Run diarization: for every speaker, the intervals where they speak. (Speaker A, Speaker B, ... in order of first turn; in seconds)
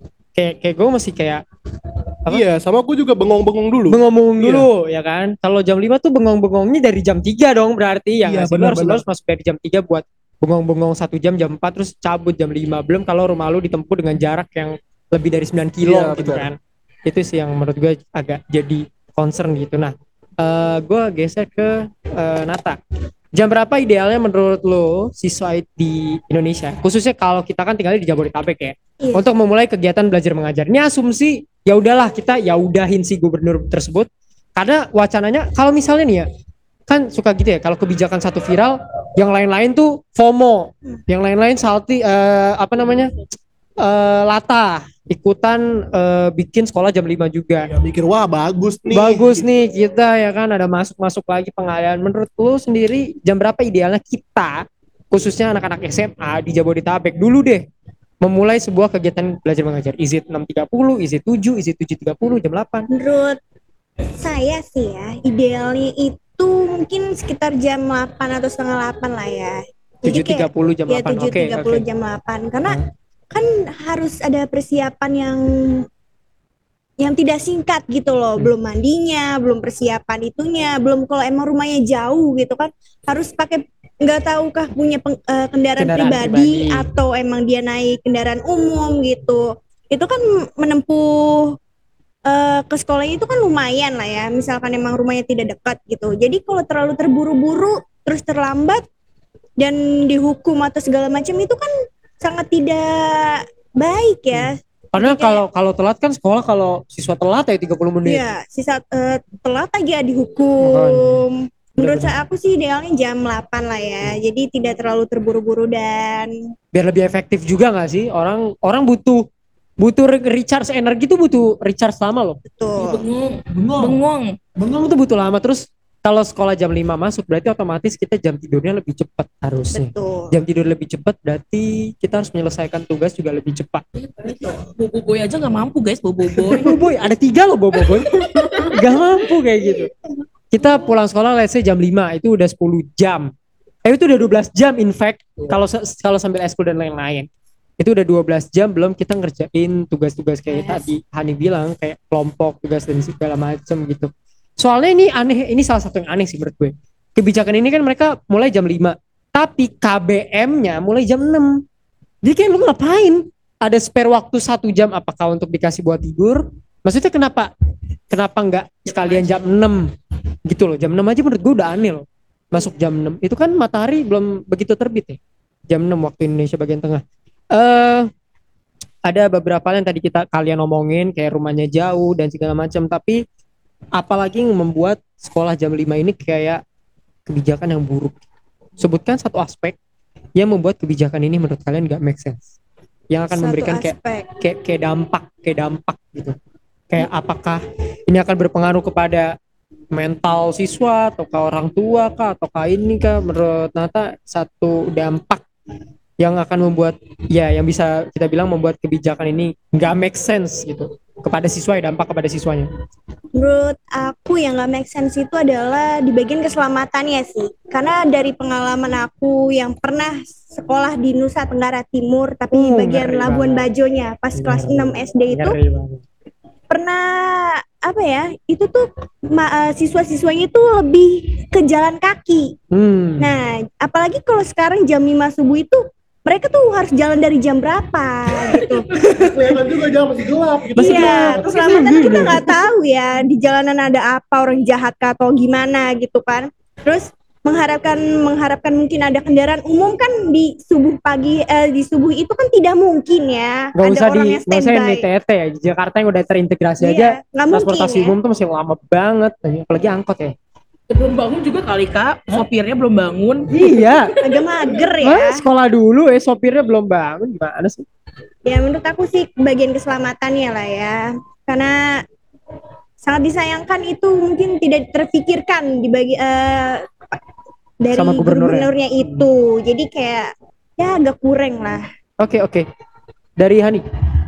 Speaker A: 0.3-1.4, 3.9-22.8, 23.3-36.3, 36.9-43.1, 43.8-47.7, 48.9-57.6, 58.2-62.9, 70.1-71.8, 85.8-86.9, 104.3-108.2, 110.6-111.2, 111.8-112.2, 116.7-119.2, 119.8-122.4, 123.5-124.0, 124.6-133.8, 136.6-139.9, 140.5-143.3, 143.8-147.3, 147.8-161.6, 162.2-167.5, 168.1-169.9, 170.5-175.2, 175.7-178.1, 179.1-183.2, 184.0-186.6, 187.3-188.2, 188.8-189.8, 190.4-192.4, 193.1-196.3, 196.9-199.3, 199.9-205.4, 206.2-212.7, 222.5-223.7, 224.4-226.0, 232.7-233.3, 238.5-239.5, 240.8-242.6, 253.8-260.3, 263.5-264.1, 265.0-267.9, 277.9-279.3, 282.2-282.7, 283.4-283.8
Speaker B: 2.3-4.7, 8.2-9.0, 15.8-16.5, 47.7-49.5, 239.1-242.3
Speaker C: 62.9-63.4, 64.2-72.8, 73.3-75.9, 77.0-91.6, 92.3-98.8, 99.6-105.4, 108.0-116.3, 122.5-123.0, 129.7-130.3, 193.3-194.3, 213.4-225.6, 226.7-232.5, 233.2-238.9, 240.8-255.1, 256.8-258.1, 264.2-265.4, 268.4-272.0, 273.0-277.2, 277.8-281.8
Speaker D: 122.8-124.4, 134.2-136.8, 138.1-138.7, 169.1-169.3, 260.9-264.5